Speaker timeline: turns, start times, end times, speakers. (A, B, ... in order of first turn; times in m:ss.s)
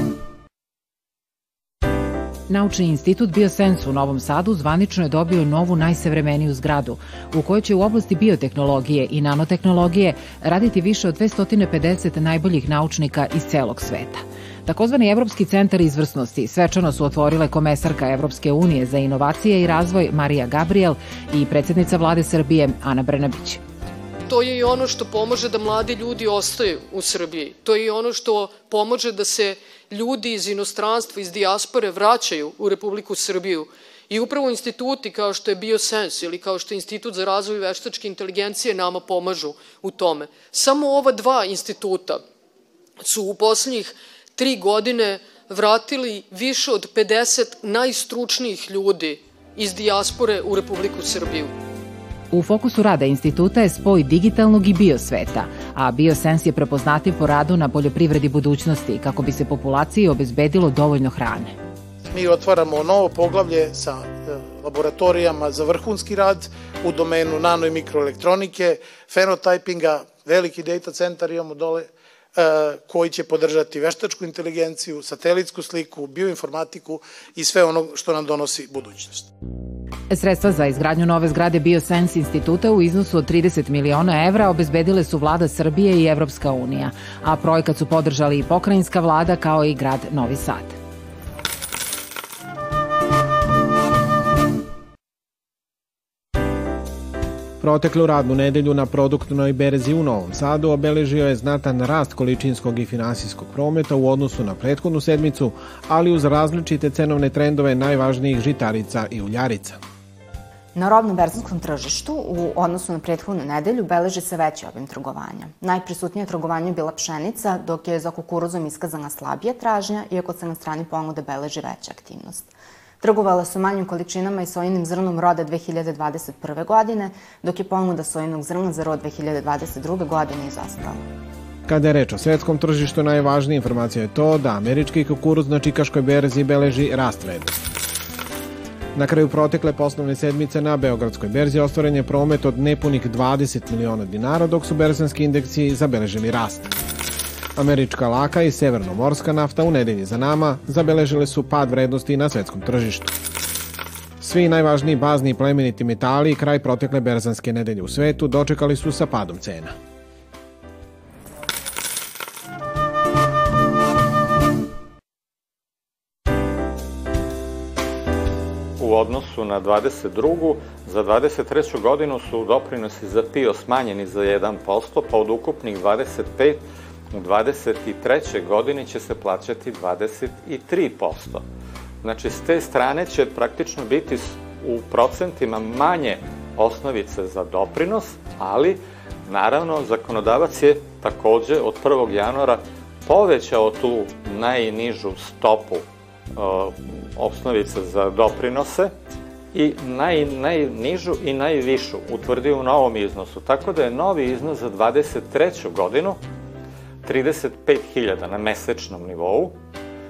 0:02.5-0:23.6 A
0:24.3-0:42.2 B
0:43.0-0:51.5 B
0:52.3-1:01.5 A
1:02.1-1:19.3 C
1:20.1-1:30.8 A
1:37.6-1:49.8 D
1:50.7-2:11.0 E
2:11.7-2:17.6 D
2:18.9-2:26.6 D
2:27.6-2:33.1 D
2:34.2-2:39.7 D
2:48.8-3:01.4 F
3:02.0-3:15.8 F
3:16.3-3:18.9 F
3:19.5-3:26.2 F
3:27.0-3:29.5 F